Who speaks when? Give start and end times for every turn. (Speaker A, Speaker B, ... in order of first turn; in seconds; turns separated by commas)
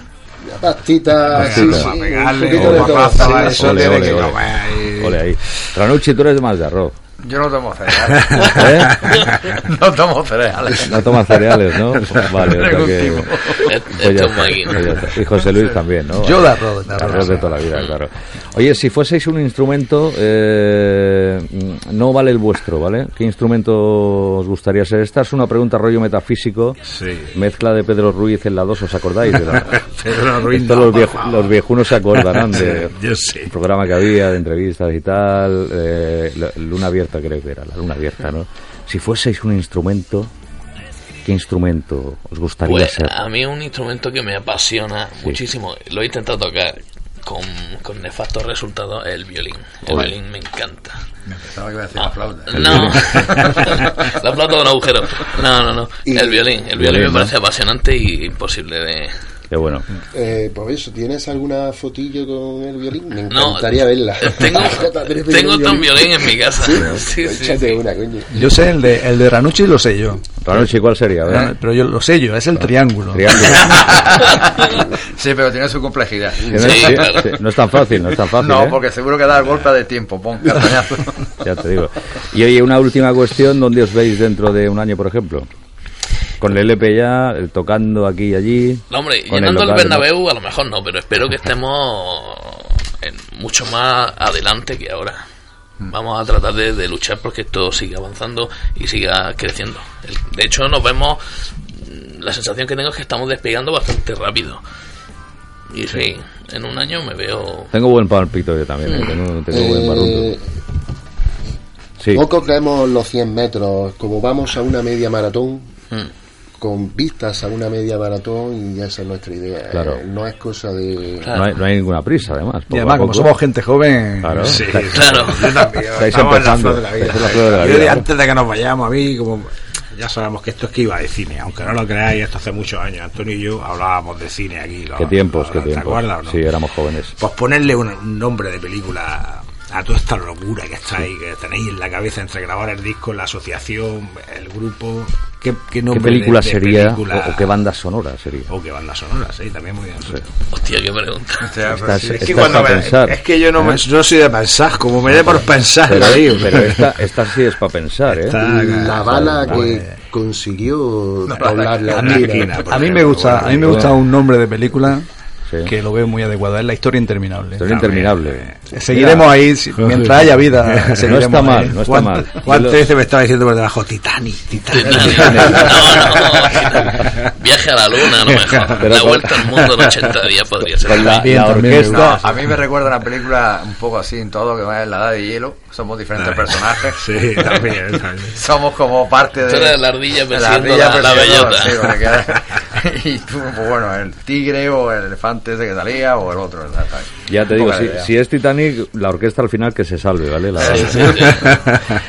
Speaker A: 0.5-3.9, Speaker B: 1.3-5.2, Speaker C: 1.4-1.9, Speaker C: 2.5-4.4, Speaker C: 5.0-7.0, Speaker D: 7.2-11.2, Speaker B: 8.3-9.6, Speaker C: 8.5-9.1, Speaker C: 10.8-26.8, Speaker D: 12.3-13.7, Speaker E: 13.7-14.9, Speaker F: 16.1-17.4, Speaker B: 26.9-27.3, Speaker C: 27.3-32.9, Speaker B: 29.7-31.5, Speaker B: 32.1-33.5, Speaker C: 33.5-40.3, Speaker C: 41.2-43.2, Speaker E: 42.6-51.0, Speaker C: 49.9-50.1, Speaker D: 51.3-53.8, Speaker E: 52.0-59.1, Speaker C: 52.5-53.6, Speaker A: 56.1-56.5, Speaker C: 56.7-57.3, Speaker C: 59.5-59.9, Speaker A: 60.1-68.4, Speaker E: 63.3-67.8, Speaker F: 68.3-70.7, Speaker C: 70.4-71.5, Speaker F: 71.3-73.7, Speaker C: 72.6-74.1, Speaker D: 73.7-77.3, Speaker C: 76.5-78.8, Speaker E: 76.5-77.3, Speaker D: 78.4-81.2, Speaker C: 81.4-85.5, Speaker C: 86.4-90.1, Speaker E: 88.9-95.2, Speaker E: 95.8-104.6, Speaker E: 105.7-107.7, Speaker C: 107.7-110.3, Speaker E: 108.8-109.2, Speaker A: 109.5-110.4, Speaker A: 112.1-115.7, Speaker A: 116.6-121.4, Speaker C: 119.7-120.0, Speaker E: 121.2-121.5, Speaker C: 121.3-123.3, Speaker F: 122.7-124.7, Speaker C: 124.2-125.3, Speaker B: 124.5-136.4, Speaker E: 124.9-125.5, Speaker C: 126.0-128.1, Speaker C: 135.0-137.1, Speaker B: 137.2-147.5, Speaker C: 145.9-148.5, Speaker B: 148.5-150.3, Speaker E: 150.5-151.5, Speaker D: 151.4-152.5, Speaker C: 151.7-153.8, Speaker B: 152.0-156.9, Speaker C: 155.3-158.4, Speaker B: 158.1-159.1, Speaker A: 158.3-162.6, Speaker C: 159.1-159.7, Speaker F: 159.4-159.9, Speaker D: 161.3-162.1, Speaker B: 161.8-163.9, Speaker F: 162.6-165.1, Speaker C: 163.6-164.0, Speaker C: 165.5-165.7, Speaker F: 165.6-167.7, Speaker C: 167.6-169.3, Speaker B: 167.7-168.6, Speaker F: 168.7-171.8, Speaker B: 169.8-171.1, Speaker C: 171.0-172.8, Speaker B: 171.7-177.3, Speaker E: 174.7-181.2, Speaker C: 174.9-176.2, Speaker B: 178.2-178.9, Speaker C: 178.8-179.5, Speaker C: 180.7-182.2, Speaker F: 181.0-182.2, Speaker D: 181.8-187.8, Speaker B: 186.2-188.4, Speaker D: 188.3-198.1, Speaker E: 189.4-191.8, Speaker C: 197.3-201.6, Speaker E: 200.6-201.5, Speaker B: 201.4-201.9